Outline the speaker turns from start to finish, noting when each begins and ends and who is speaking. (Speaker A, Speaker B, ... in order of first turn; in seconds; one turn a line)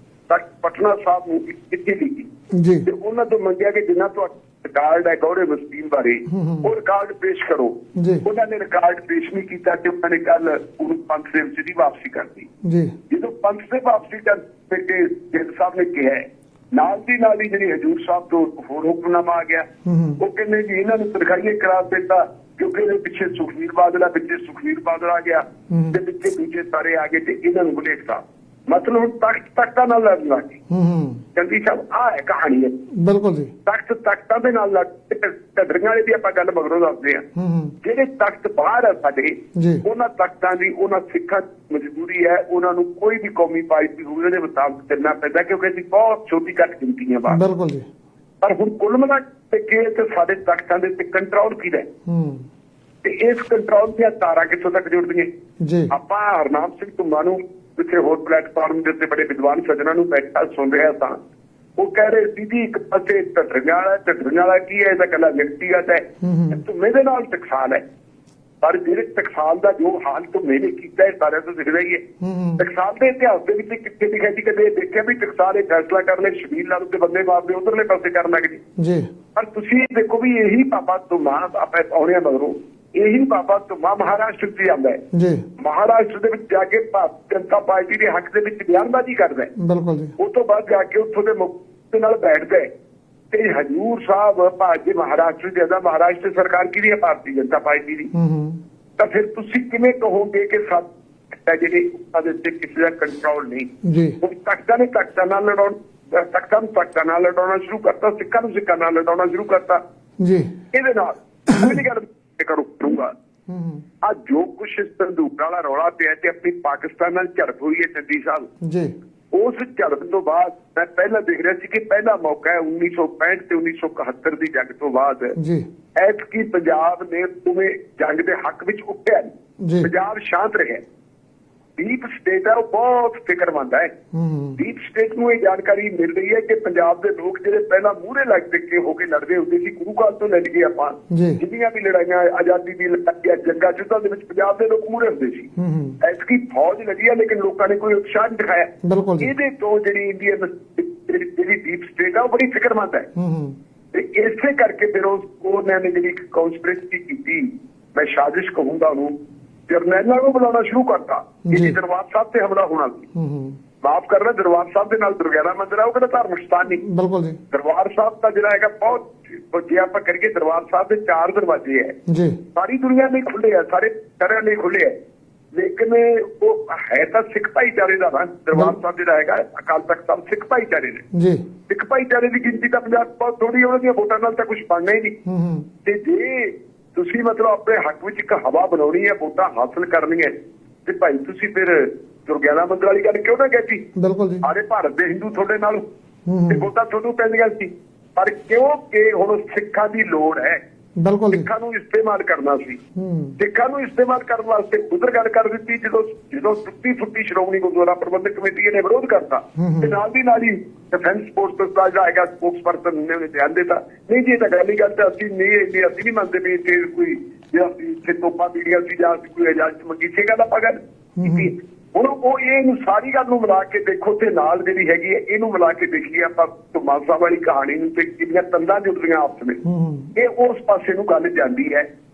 Speaker A: 0.3-2.3
Speaker B: 2.5-2.9
Speaker A: 2.8-12.5
Speaker B: 6.3-6.7
Speaker B: 7.9-8.2
Speaker B: 12.6-12.9
Speaker A: 13.1-19.7
Speaker B: 19.8-20.2
Speaker A: 20.2-30.6
Speaker B: 25.7-26.0
Speaker B: 30.7-31.2
Speaker A: 31.3-32.7
Speaker B: 33.0-33.5
Speaker A: 33.6-37.2
Speaker B: 37.4-37.7
Speaker A: 37.8-47.4
Speaker B: 39.5-39.8
Speaker B: 47.3-47.9
Speaker A: 48.4-51.9
Speaker B: 52.1-52.5
Speaker A: 53.0-55.3
Speaker B: 55.6-55.9
Speaker A: 55.9-61.2
Speaker A: 61.8-67.8
Speaker B: 66.2-66.6
Speaker A: 68.6-72.0
Speaker B: 72.2-72.6
Speaker A: 72.6-78.6
Speaker B: 78.8-79.1
Speaker A: 79.3-85.0
Speaker B: 85.1-85.4
Speaker A: 85.6-89.5
Speaker B: 89.5-90.1
Speaker A: 90.2-92.7
Speaker A: 93.3-98.1
Speaker B: 98.1-98.6
Speaker A: 99.0-109.8
Speaker B: 103.8-104.2
Speaker B: 110.2-110.5
Speaker A: 110.7-113.1
Speaker B: 113.5-113.8
Speaker A: 114.0-118.5
Speaker B: 118.6-118.9
Speaker A: 119.3-125.3
Speaker B: 125.3-125.7
Speaker A: 125.9-130.8
Speaker B: 129.6-129.9
Speaker A: 131.8-133.9
Speaker B: 134.1-134.6
Speaker A: 134.6-145.5
Speaker B: 141.1-141.4
Speaker B: 145.6-146.0
Speaker A: 146.0-153.1
Speaker B: 148.8-149.3
Speaker B: 153.2-153.6
Speaker A: 153.9-159.1
Speaker A: 159.7-163.1
Speaker B: 161.4-161.8
Speaker B: 163.1-163.6
Speaker A: 163.8-166.8
Speaker B: 166.7-167.4
Speaker A: 167.5-171.9
Speaker B: 172.1-172.4
Speaker A: 172.5-174.9
Speaker A: 175.5-181.0
Speaker B: 178.5-178.8
Speaker B: 181.1-181.4
Speaker A: 181.7-185.2
Speaker B: 185.2-185.7
Speaker A: 185.8-190.3
Speaker A: 190.8-193.8
Speaker B: 193.9-194.4
Speaker A: 194.4-195.8
Speaker B: 196.3-196.7
Speaker A: 196.5-200.6
Speaker B: 201.0-201.5
Speaker A: 201.3-202.8
Speaker B: 202.9-203.3
Speaker A: 203.4-229.6
Speaker B: 209.6-210.0
Speaker B: 221.2-221.5
Speaker B: 229.6-230.1
Speaker A: 230.1-231.8